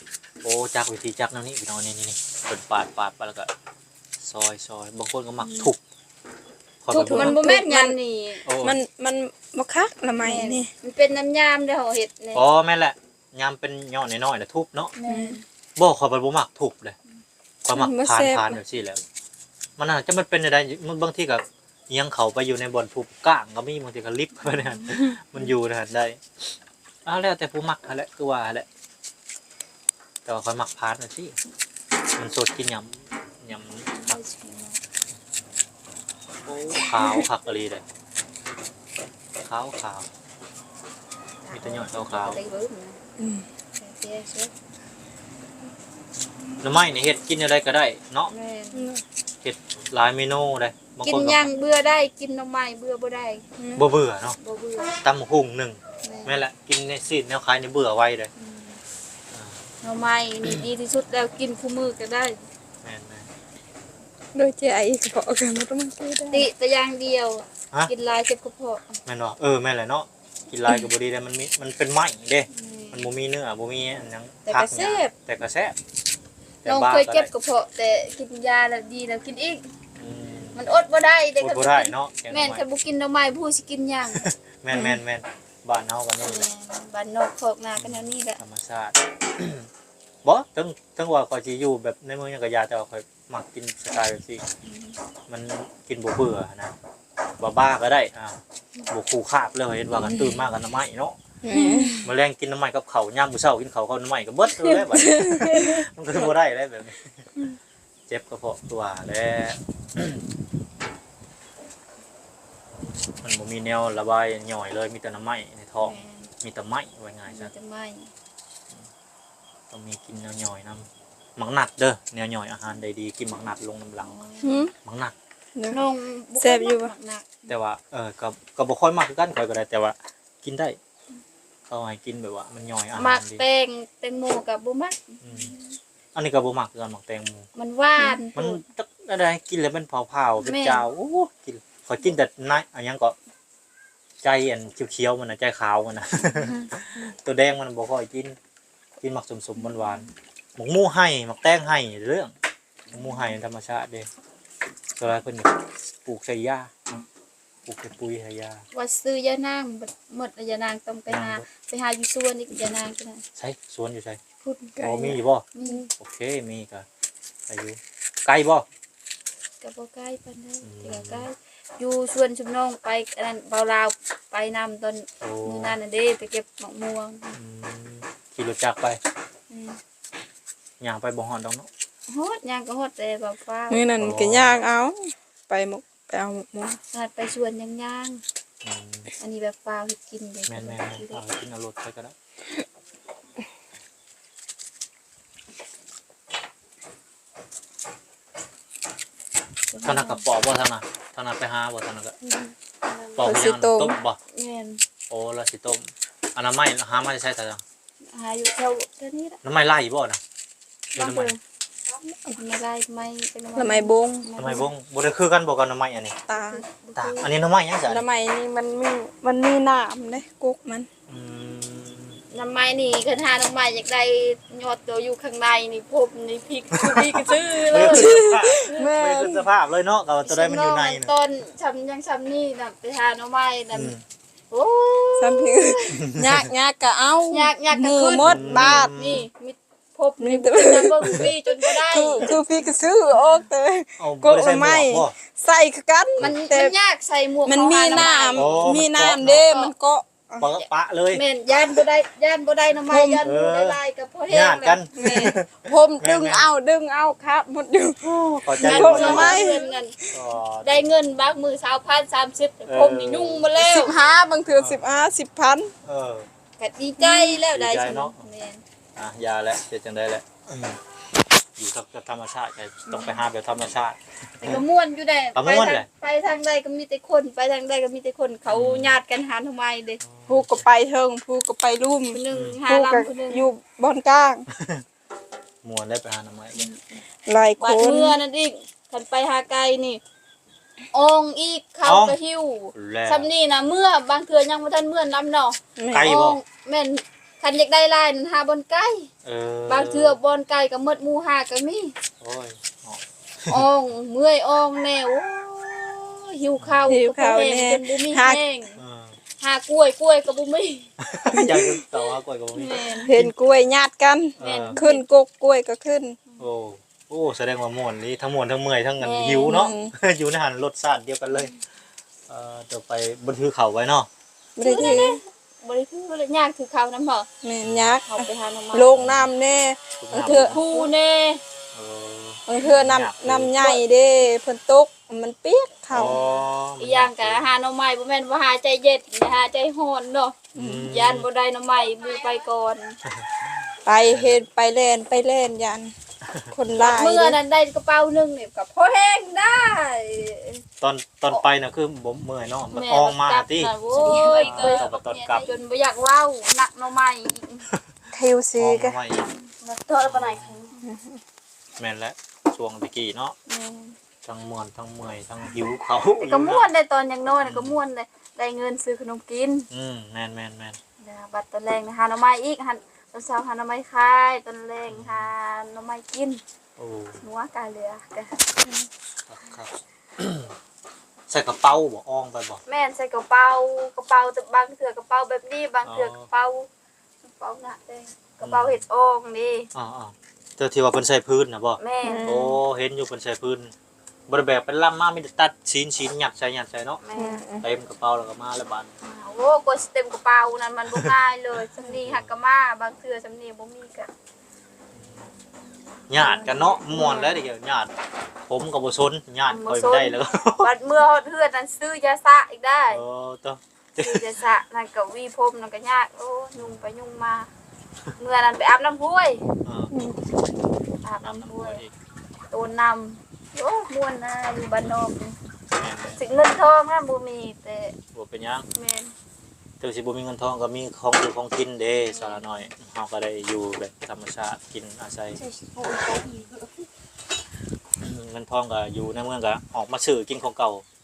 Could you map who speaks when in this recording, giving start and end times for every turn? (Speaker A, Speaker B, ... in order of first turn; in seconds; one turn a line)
Speaker A: 0.4-3.5
Speaker A: 4.2-5.8
Speaker B: 5.4-5.7
Speaker A: 6.8-7.3
Speaker B: 6.9-8.4
Speaker C: 7.1-8.0
Speaker A: 8.4-8.8
Speaker C: 8.6-10.7
Speaker B: 10.2-12.4
Speaker A: 12.3-14.9
Speaker B: 14.9-15.4
Speaker C: 15.0-15.4
Speaker A: 15.8-16.9
Speaker A: 17.6-19.0
Speaker C: 17.7-18.6
Speaker A: 19.8-26.2
Speaker B: 24.4-24.9
Speaker A: 27.0-28.7
Speaker A: 30.2-31.4
Speaker A: 32.2-34.2
Speaker B: 33.9-34.8
Speaker A: 36.5-37.8
Speaker A: 39.4-40.1
Speaker B: 41.4-43.0
Speaker A: 41.5-42.4
Speaker C: 43.2-43.4
Speaker B: 43.8-44.5
Speaker A: 46.6-48.3
Speaker B: 48.3-48.9
Speaker C: 48.7-49.0
Speaker A: 49.4-51.5
Speaker B: 51.0-53.4
Speaker C: 53.6-53.9
Speaker A: 53.8-54.4
Speaker B: 54.4-54.9
Speaker A: 55.0-58.3
Speaker B: 56.0-56.4
Speaker B: 58.4-58.8
Speaker A: 59.3-59.6
Speaker B: 59.8-62.4
Speaker A: 62.8-63.3
Speaker C: 64.3-66.5
Speaker B: 66.3-69.0
Speaker A: 69.0-75.8
Speaker B: 72.5-73.1
Speaker B: 74.5-75.1
Speaker A: 76.6-77.3
Speaker B: 76.6-79.6
Speaker A: 80.0-80.6
Speaker B: 80.5-84.2
Speaker A: 81.4-82.6
Speaker A: 84.1-86.5
Speaker C: 84.7-85.0
Speaker B: 86.2-88.4
Speaker A: 87.8-89.7
Speaker A: 90.2-94.4
Speaker B: 94.6-95.0
Speaker A: 95.3-96.7
Speaker A: 97.4-98.4
Speaker A: 98.9-101.2
Speaker C: 100.0-100.4
Speaker C: 101.4-102.1
Speaker B: 101.5-101.9
Speaker A: 102.0-107.2
Speaker C: 104.5-105.8
Speaker A: 108.1-110.2
Speaker A: 113.2-117.5
Speaker B: 115.8-116.3
Speaker B: 117.3-118.1
Speaker A: 119.7-124.2
Speaker B: 124.0-124.6
Speaker C: 124.4-124.7
Speaker A: 124.8-125.1
Speaker C: 125.5-125.8
Speaker B: 125.7-127.5
Speaker C: 126.4-126.9
Speaker A: 127.5-130.8
Speaker A: 131.7-133.4
Speaker B: 132.9-135.6
Speaker A: 135.2-135.5
Speaker A: 136.1-137.5
Speaker B: 137.5-138.6
Speaker A: 138.3-143.1
Speaker B: 140.4-140.8
Speaker A: 144.2-148.3
Speaker A: 149.0-152.3
Speaker A: 152.9-154.1
Speaker B: 152.9-153.2
Speaker A: 155.0-157.0
Speaker A: 157.7-158.6
Speaker B: 158.7-163.2
Speaker A: 161.1-161.4
Speaker A: 163.3-164.2
Speaker B: 164.4-164.8
Speaker C: 164.6-165.9
Speaker A: 164.8-165.4
Speaker B: 165.5-165.8
Speaker A: 166.0-166.8
Speaker A: 167.5-168.6
Speaker B: 169.6-177.3
Speaker A: 170.6-171.3
Speaker A: 175.2-175.8
Speaker A: 177.3-179.0
Speaker C: 179.5-179.8
Speaker A: 180.8-181.7
Speaker B: 182.1-183.9
Speaker C: 183.7-186.8
Speaker A: 184.0-184.6
Speaker B: 186.9-188.2
Speaker A: 188.6-189.1
Speaker B: 189.2-191.2
Speaker A: 190.5-192.1
Speaker B: 199.7-200.2
Speaker A: 199.8-202.1
Speaker C: 202.2-202.5
Speaker B: 202.8-203.3
Speaker A: 203.2-204.2
Speaker C: 203.2-204.0
Speaker B: 204.3-204.8
Speaker A: 205.1-207.6
Speaker B: 208.1-209.4
Speaker A: 209.4-210.2
Speaker B: 210.9-211.4
Speaker A: 210.9-211.3
Speaker B: 211.9-214.7
Speaker C: 213.6-214.3
Speaker A: 214.4-216.2
Speaker C: 216.3-216.6
Speaker B: 216.3-217.3
Speaker A: 216.9-218.0
Speaker C: 217.9-220.9
Speaker A: 221.1-222.2
Speaker B: 222.3-228.2
Speaker A: 226.8-231.1
Speaker C: 227.2-229.5
Speaker B: 230.2-233.9
Speaker A: 233.7-234.0
Speaker B: 234.5-235.9
Speaker C: 235.2-238.9
Speaker A: 235.9-236.5
Speaker B: 237.3-242.3
Speaker A: 238.2-239.2
Speaker C: 240.2-246.8
Speaker A: 244.0-245.1
Speaker B: 246.2-249.7
Speaker C: 247.4-250.5
Speaker A: 247.9-249.5
Speaker A: 250.4-251.2
Speaker B: 251.1-254.8
Speaker C: 252.9-253.2
Speaker A: 253.2-256.5
Speaker C: 254.9-259.7
Speaker A: 258.0-259.6
Speaker B: 258.6-259.9
Speaker A: 260.1-260.9
Speaker B: 260.6-264.0
Speaker A: 262.6-263.6
Speaker C: 263.6-265.7
Speaker A: 264.5-264.8
Speaker A: 265.8-266.3
Speaker B: 266.6-268.6
Speaker C: 267.0-267.4
Speaker A: 267.5-268.2
Speaker A: 268.9-270.8
Speaker A: 271.6-274.6
Speaker B: 272.9-273.2
Speaker B: 274.4-280.0
Speaker A: 275.3-275.9
Speaker A: 278.4-279.0
Speaker A: 280.0-280.6
Speaker C: 280.3-284.5
Speaker B: 282.1-283.5
Speaker A: 282.3-282.6
Speaker A: 284.6-284.8
Speaker A: 285.6-286.7
Speaker C: 287.2-288.2
Speaker B: 287.6-290.0
Speaker B: 290.9-299.1
Speaker A: 291.8-292.2
Speaker A: 292.7-293.3
Speaker C: 295.8-296.1
Speaker A: 295.9-296.4
Speaker A: 299.2-300.2
Speaker B: 299.7-301.9
Speaker A: 302.2-303.6
Speaker B: 303.5-308.8
Speaker A: 306.6-306.9
Speaker C: 306.9-308.4
Speaker A: 308.8-309.1
Speaker B: 309.4-310.9
Speaker A: 311.1-313.3
Speaker C: 311.3-311.8
Speaker B: 312.5-313.1
Speaker C: 313.0-316.2
Speaker A: 314.4-314.8
Speaker B: 314.4-315.0
Speaker A: 316.4-321.5
Speaker B: 319.0-319.7
Speaker C: 319.4-319.9
Speaker A: 322.3-324.1
Speaker C: 324.6-325.2
Speaker B: 324.6-327.3
Speaker C: 327.4-330.9
Speaker A: 327.6-327.9
Speaker B: 327.9-328.9
Speaker A: 328.9-329.3
Speaker A: 330.0-330.6
Speaker B: 330.5-331.4
Speaker A: 331.7-333.8
Speaker C: 332.5-336.2
Speaker A: 335.9-337.5
Speaker B: 336.0-343.0
Speaker C: 340.5-340.9
Speaker A: 340.5-341.3
Speaker A: 343.1-343.5
Speaker C: 343.8-345.9
Speaker A: 344.1-344.4
Speaker A: 346.2-346.5
Speaker C: 346.5-347.4
Speaker B: 346.8-350.6
Speaker A: 350.8-355.5
Speaker B: 352.7-357.7
Speaker C: 358.1-359.0
Speaker A: 358.6-359.3
Speaker B: 359.4-360.7
Speaker A: 360.0-360.6
Speaker C: 360.8-361.2
Speaker A: 361.8-363.3
Speaker B: 363.5-363.9
Speaker A: 364.2-366.7
Speaker B: 366.2-369.7
Speaker A: 367.4-367.8
Speaker A: 369.7-370.8
Speaker B: 371.0-376.4
Speaker A: 374.9-375.3
Speaker A: 376.8-377.2
Speaker B: 377.2-378.4
Speaker A: 379.3-380.5
Speaker A: 381.3-382.6
Speaker B: 382.6-386.7
Speaker A: 385.8-386.3
Speaker B: 387.2-389.7
Speaker A: 388.4-388.8
Speaker A: 389.7-393.7
Speaker B: 391.8-392.4
Speaker C: 392.0-392.6
Speaker A: 394.3-397.0
Speaker B: 397.0-397.4
Speaker C: 397.1-397.7
Speaker A: 397.6-398.9
Speaker B: 399.0-404.1
Speaker A: 401.9-402.3
Speaker A: 405.0-405.2
Speaker A: 406.1-407.9
Speaker B: 406.2-406.8
Speaker C: 406.9-407.4
Speaker A: 408.5-410.7
Speaker B: 409.5-413.0
Speaker A: 412.9-414.2
Speaker B: 414.0-417.5
Speaker A: 416.6-416.8
Speaker B: 418.2-419.4
Speaker A: 419.6-419.9
Speaker C: 419.9-420.2
Speaker B: 421.0-421.8
Speaker A: 421.2-421.9
Speaker B: 422.5-425.4
Speaker A: 425.7-426.2
Speaker B: 426.1-427.9
Speaker A: 428.1-428.7
Speaker B: 428.7-429.1
Speaker A: 429.8-435.4
Speaker B: 431.9-432.7
Speaker B: 435.3-436.6
Speaker A: 438.0-440.8